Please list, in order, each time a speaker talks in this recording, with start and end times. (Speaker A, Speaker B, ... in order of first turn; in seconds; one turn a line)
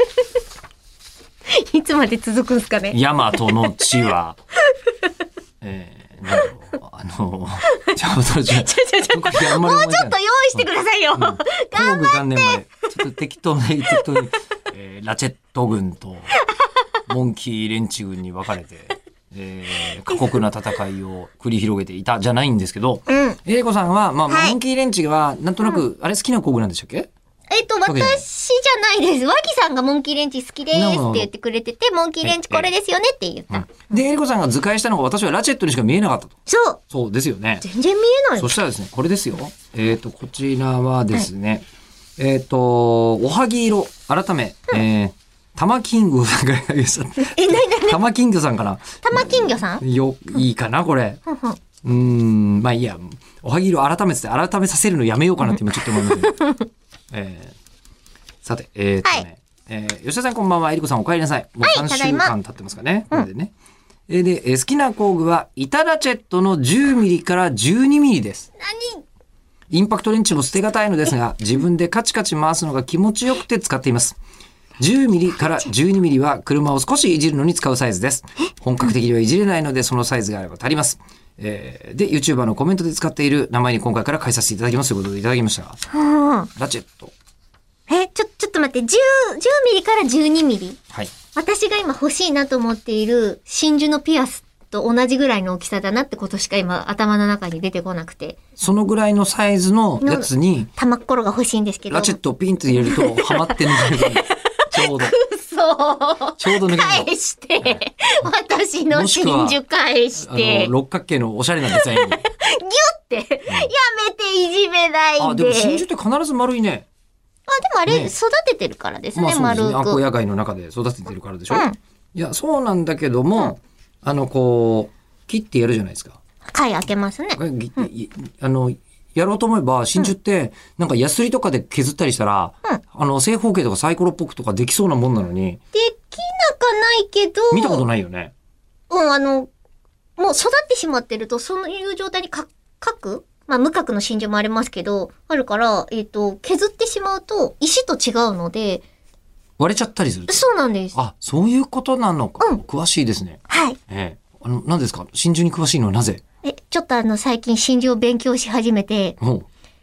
Speaker A: 1.5-3.8
Speaker B: 2.9-4.4
Speaker B: 5.6-16.4
Speaker A: 8.6-12.6
Speaker B: 17.1-27.1
Speaker A: 23.1-23.4
Speaker A: 24.3-24.6
Speaker A: 27.5-34.0
Speaker B: 27.9-28.2
Speaker B: 30.7-31.3
Speaker B: 32.2-32.7
Speaker B: 33.5-36.4
Speaker A: 36.5-36.8
Speaker B: 36.9-37.6
Speaker A: 37.6-38.5
Speaker B: 38.4-41.6
Speaker B: 42.2-51.2
Speaker A: 47.2-48.0
Speaker A: 49.0-49.8
Speaker A: 51.3-51.6
Speaker B: 51.8-56.4
Speaker A: 55.9-56.5
Speaker B: 57.1-57.5
Speaker B: 58.4-63.5
Speaker A: 61.6-62.3
Speaker B: 64.1-68.5
Speaker A: 68.6-69.0
Speaker B: 69.7-74.2
Speaker B: 74.8-85.8
Speaker A: 85.9-86.5
Speaker B: 86.6-87.1
Speaker A: 87.9-90.8
Speaker A: 91.3-98.4
Speaker B: 98.6-100.7
Speaker A: 100.0-102.2
Speaker B: 101.9-105.1
Speaker A: 102.7-110.7
Speaker B: 106.4-107.1
Speaker B: 108.9-109.6
Speaker B: 110.2-112.2
Speaker A: 111.7-115.8
Speaker B: 115.2-116.9
Speaker A: 117.5-120.0
Speaker B: 117.9-118.1
Speaker B: 119.2-126.2
Speaker A: 121.5-121.8
Speaker A: 126.5-127.9
Speaker B: 127.4-135.6
Speaker A: 135.7-137.9
Speaker B: 137.5-138.3
Speaker A: 138.9-139.5
Speaker A: 140.2-148.8
Speaker B: 149.6-156.2
Speaker A: 150.3-151.0
Speaker A: 153.5-153.8
Speaker A: 156.4-159.2
Speaker B: 159.2-159.5